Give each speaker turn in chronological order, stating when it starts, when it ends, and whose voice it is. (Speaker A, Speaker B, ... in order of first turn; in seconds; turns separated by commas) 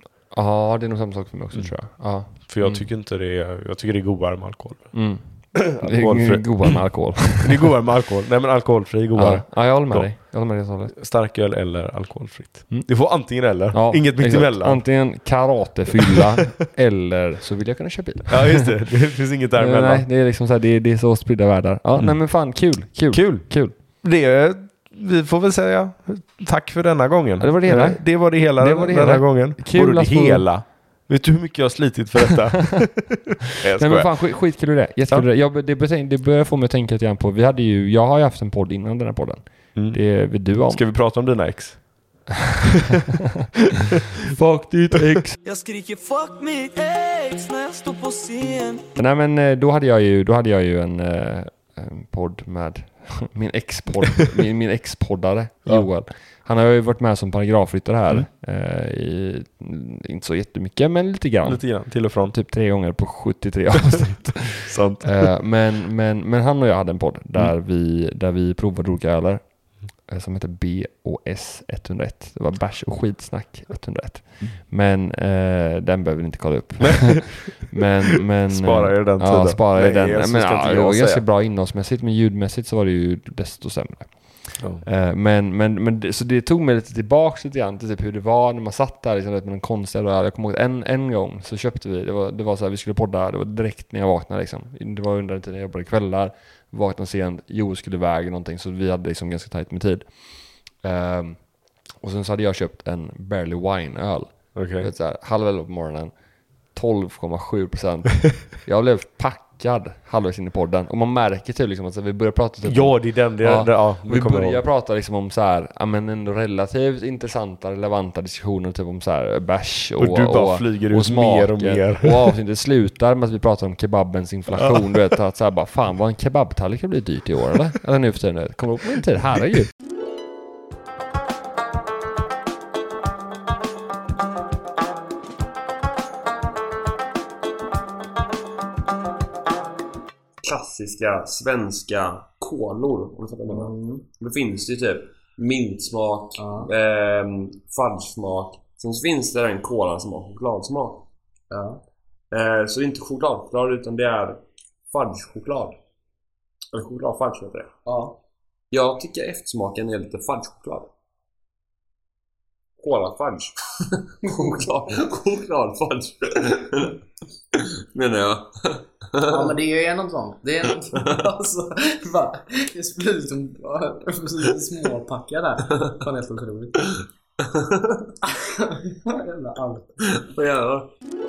Speaker A: 0.3-2.9, Speaker B: 2.4-4.9, Speaker A: 4.9-7.7, Speaker B: 5.5-6.8, Speaker B: 7.4-10.1, Speaker A: 9.1-10.9, Speaker B: 10.9-14.8, Speaker A: 12.7-13.0, Speaker A: 13.7-18.7, Speaker B: 18.3-20.1, Speaker A: 19.6-23.8, Speaker B: 23.1-34.1, Speaker A: 27.4-30.5, Speaker A: 33.8-40.8, Speaker B: 39.7-42.3, Speaker A: 44.2-45.4, Speaker C: 45.4-48.8, Speaker A: 49.0-106.1, Speaker B: 61.5-62.3, Speaker B: 64.7-65.3, Speaker B: 78.5-81.2, Speaker B: 84.6-84.8, Speaker B: 104.5-104.9, Speaker A: 106.7-129.7, Speaker B: 112.6-114.6, Speaker B: 120.0-122.3, Speaker D: 140.4-151.0, Speaker E: 143.5-144.0, Speaker E: 146.4-146.7, Speaker E: 151.5-151.8, Speaker D: 152.3-155.8, Speaker D: 156.7-157.7, Speaker E: 157.8-158.2, Speaker D: 158.7-160.9, Speaker D: 162.8-167.0, Speaker E: 164.2-164.7, Speaker D: 167.5-169.6, Speaker E: 169.3-176.9, Speaker D: 170.9-171.3, Speaker D: 177.4-178.1, Speaker E: 178.2-179.9, Speaker D: 180.2-180.9